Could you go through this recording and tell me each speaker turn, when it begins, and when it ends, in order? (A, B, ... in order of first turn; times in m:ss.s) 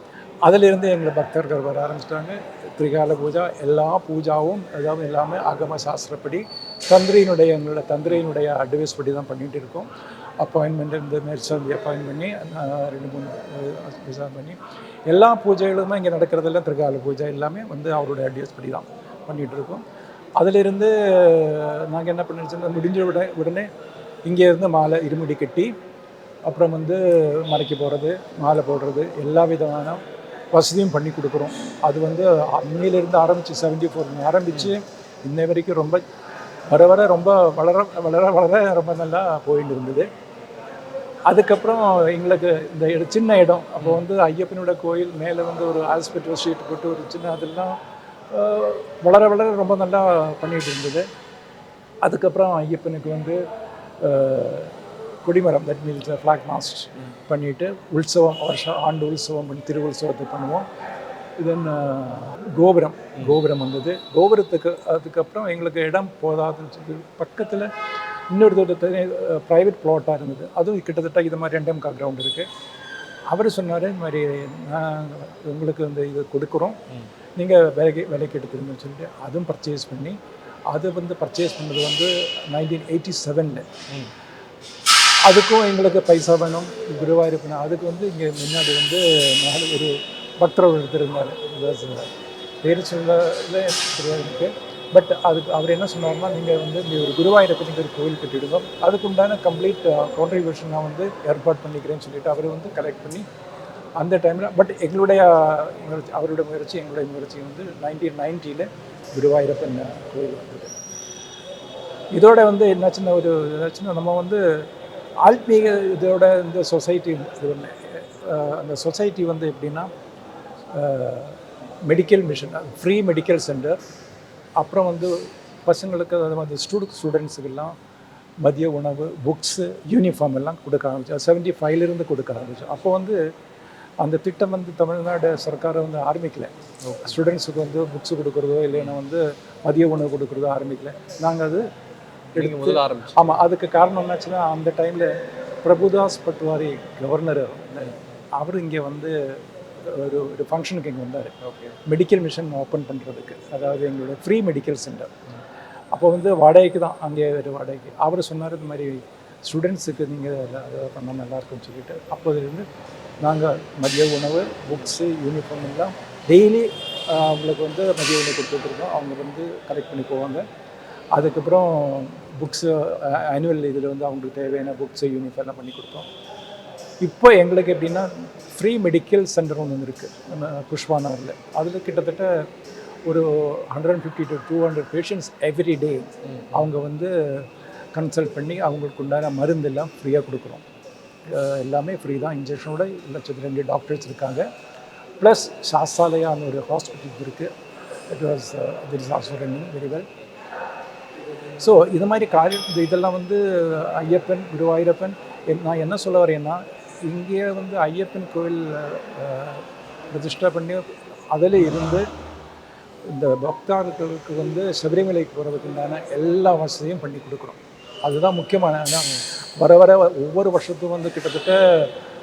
0:00.4-0:09.9 A
0:10.4-0:14.6 A
0:15.1-0:19.8 A
0:20.4-0:23.6 A
0:24.3-0:25.7 A
0:26.4-0:30.0 A
0:30.5-0:36.0 A
0:36.7-0:40.0 A
0:41.3-0:47.8 A
0:48.3-0:51.0 A
0:52.0-0:53.4 A
0:54.0-1:00.6 A
1:01.4-1:07.7 A
1:08.3-1:12.4 A
1:13.3-1:16.8 A
1:17.4-1:20.2 A
1:20.7-1:23.7 A
1:25.3-1:32.1 A
1:32.6-1:43.2 A
1:44.0-1:50.7 A
1:52.1-1:54.4 A
1:55.2-1:59.9 A
2:00.7-2:03.8 A
2:04.6-2:05.1 A
2:05.6-2:07.7 A
2:08.4-2:13.2 A
2:14.0-2:16.5 A
2:16.8-2:17.2 B
2:17.0-2:21.7 A
2:22.3-2:23.4 B
2:22.4-2:25.1 A
2:25.6-2:29.1 A
2:29.8-2:31.3 A
2:31.4-2:31.8 B
2:31.8-2:35.1 A
2:35.9-2:42.6 A
2:43.2-2:50.5 A
2:51.1-2:56.1 A
2:57.0-3:02.3 A
3:03.1-3:10.6 A
3:06.2-3:06.7 B
3:11.3-3:14.4 A
3:15.2-3:17.5 A
3:18.1-3:20.0 A
3:21.6-3:32.0 A
3:33.1-3:41.9 A